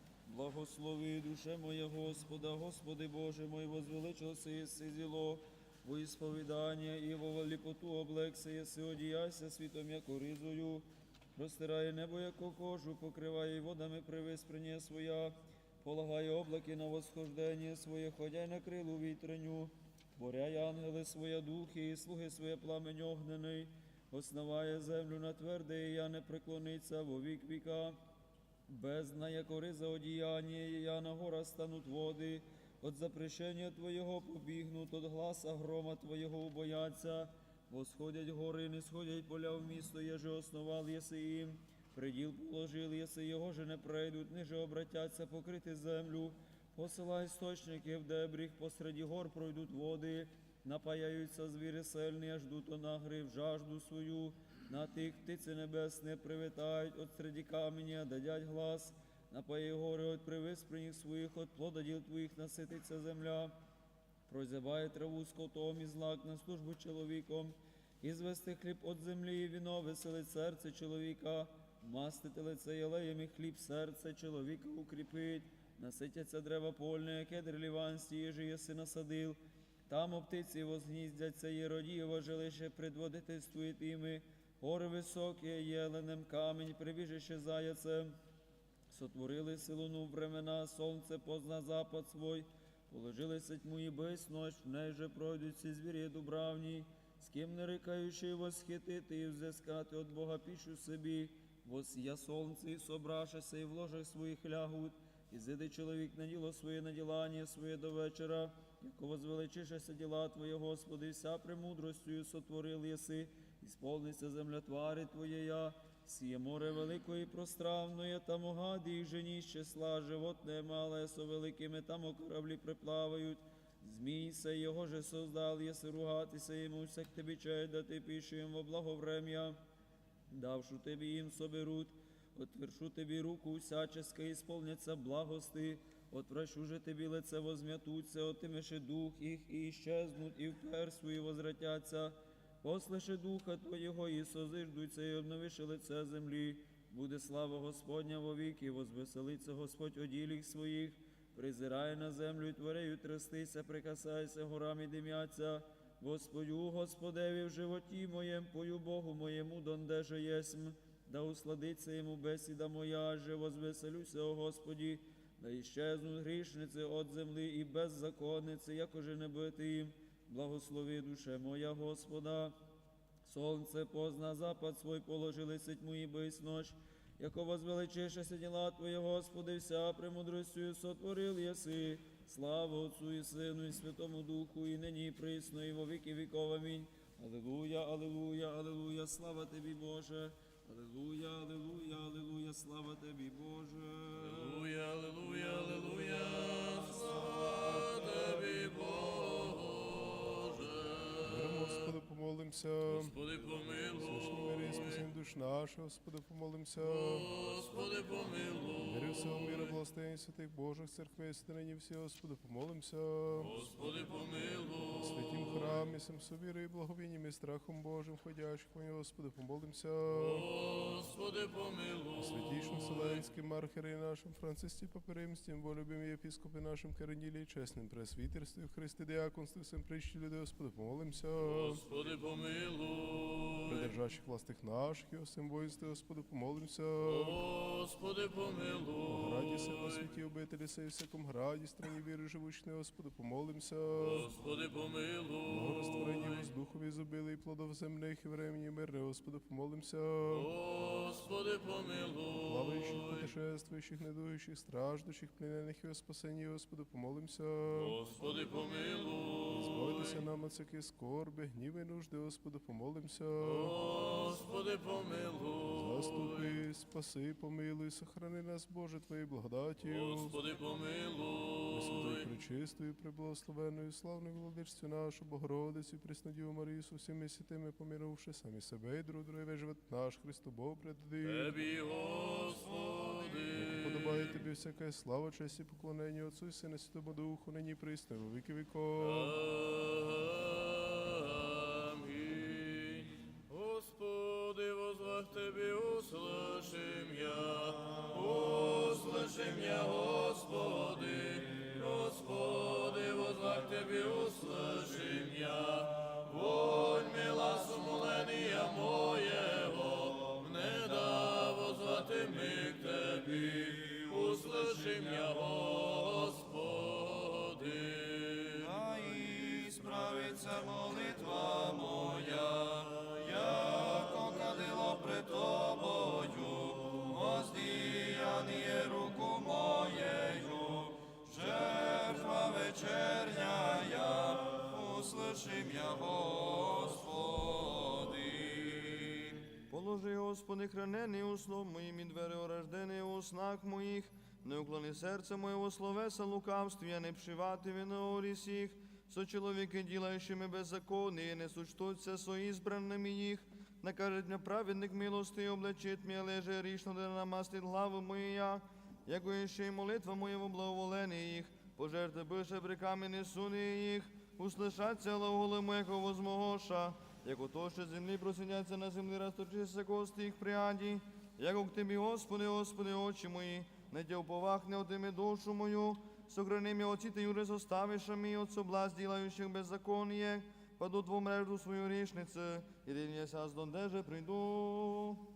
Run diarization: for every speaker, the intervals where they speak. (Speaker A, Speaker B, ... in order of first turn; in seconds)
Speaker A: 0.3-28.0, 28.7-63.5, 64.3-88.2, 88.9-129.6, 130.3-172.6, 173.2-194.7
Speaker B: 194.2-201.9, 202.9-205.0, 206.8-209.7, 213.3-215.7, 220.1-223.2, 231.4-233.9, 237.0-240.1, 244.0-246.5, 250.2-253.3, 257.7-260.2, 263.4-266.6, 269.8-272.2, 281.2-284.4, 289.0-318.7
Speaker C: 201.2-203.1, 204.0-207.3, 208.8-213.5, 214.9-220.4, 222.2-231.8, 233.7-237.4, 239.1-244.3, 245.5-250.5, 252.4-258.0, 259.5-263.8, 265.7-270.4, 271.7-281.6, 283.5-289.4
Speaker D: 318.6-339.4
Speaker E: 339.7-385.2